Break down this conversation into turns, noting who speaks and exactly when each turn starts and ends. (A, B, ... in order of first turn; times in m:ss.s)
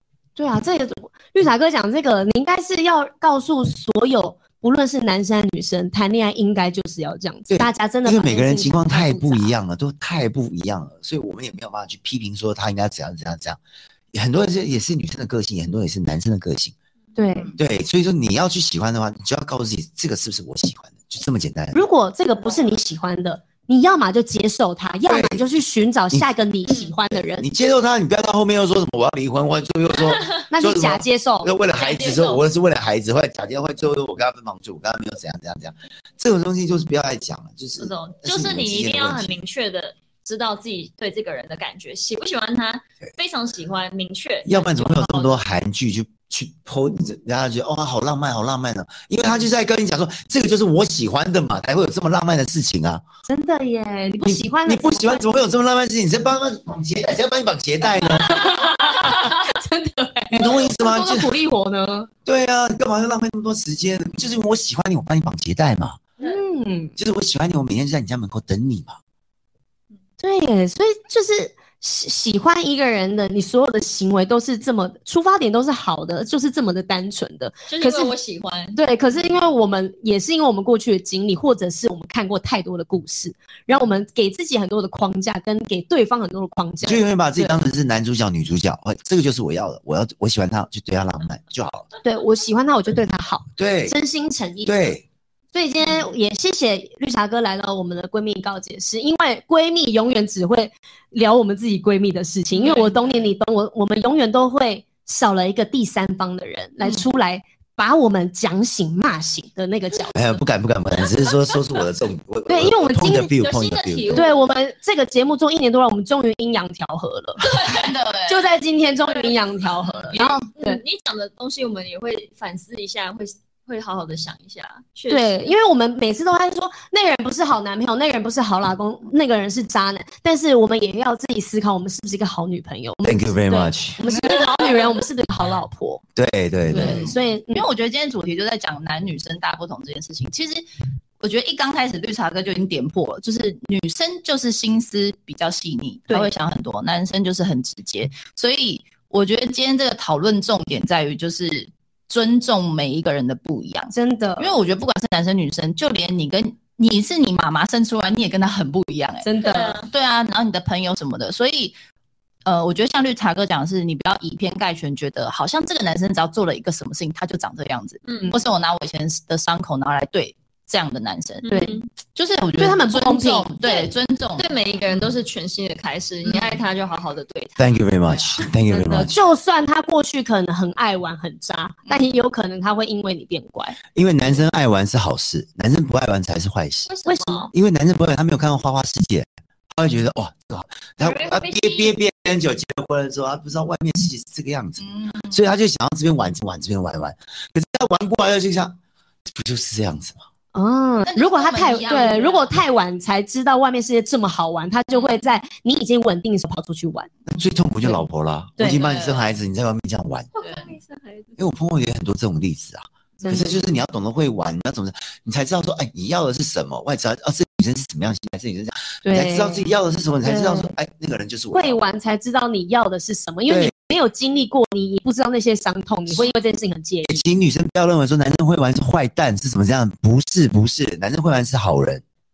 0:00.4-0:09.5 A
0:07.5-0:13.6 B
0:14.1-0:16.7 B
0:17.2-0:17.5 A
0:17.6-0:21.8 B
0:21.7-0:27.5 A
0:25.1-0:25.5 B
0:27.1-0:39.4 B
0:30.5-0:31.5 A
0:31.7-0:32.4 C
0:37.8-0:45.4 C
0:44.5-0:53.0 B
0:53.3-0:55.2 A
0:54.2-0:58.6 B
0:58.0-1:02.1 A
1:00.3-1:01.3 B
1:02.2-1:06.0 B
1:06.2-1:07.0 A
1:07.0-1:09.0 B
1:10.2-1:18.2 A
1:17.7-1:18.8 C
1:18.8-1:27.6 A
1:26.8-1:31.9 B
1:32.0-1:34.8 A
1:33.6-1:34.0 B
1:34.6-1:35.0 B
1:35.5-1:50.4 A
1:42.6-1:42.9 D
1:50.1-1:54.2 B
1:52.5-1:53.3 A
1:53.4-1:54.4 C
1:54.1-2:00.8 A
1:57.7-1:58.4 D
2:00.1-2:05.5 C
2:05.1-2:16.0 A
2:13.0-2:14.1 B
2:16.2-2:17.1 B
2:16.7-2:17.7 A
2:16.7-2:20.6 D
2:21.2-2:41.8 D
2:33.9-2:34.5 A
2:39.2-2:39.8 A
2:39.4-2:39.9 C
2:42.4-2:54.5 D
2:48.1-2:48.3 C
2:51.4-2:51.9 C
2:51.5-2:51.8 A
2:52.6-2:53.5 A
2:53.6-2:57.7 C
2:56.2-2:56.6 D
2:57.6-2:59.1 B
2:58.7-3:03.8 A
3:04.0-3:06.9 B
3:06.9-3:07.5 C
3:07.1-3:07.5 A
3:07.5-3:18.8 B
3:11.0-3:12.0 C
3:14.8-3:15.4 D
3:19.3-3:20.2 B
3:20.5-3:27.1 A
3:21.1-3:22.6 D
3:27.3-3:30.3 B
3:28.6-3:28.8 A
3:28.6-3:29.4 D
3:30.4-3:31.4 C
3:30.4-3:30.8 D
3:31.4-3:41.8 B
3:33.2-3:33.6 A
3:39.0-3:39.6 A
3:40.2-3:40.7 A
3:41.5-3:47.2 A
3:43.5-3:43.7 B
3:47.0-3:52.0 B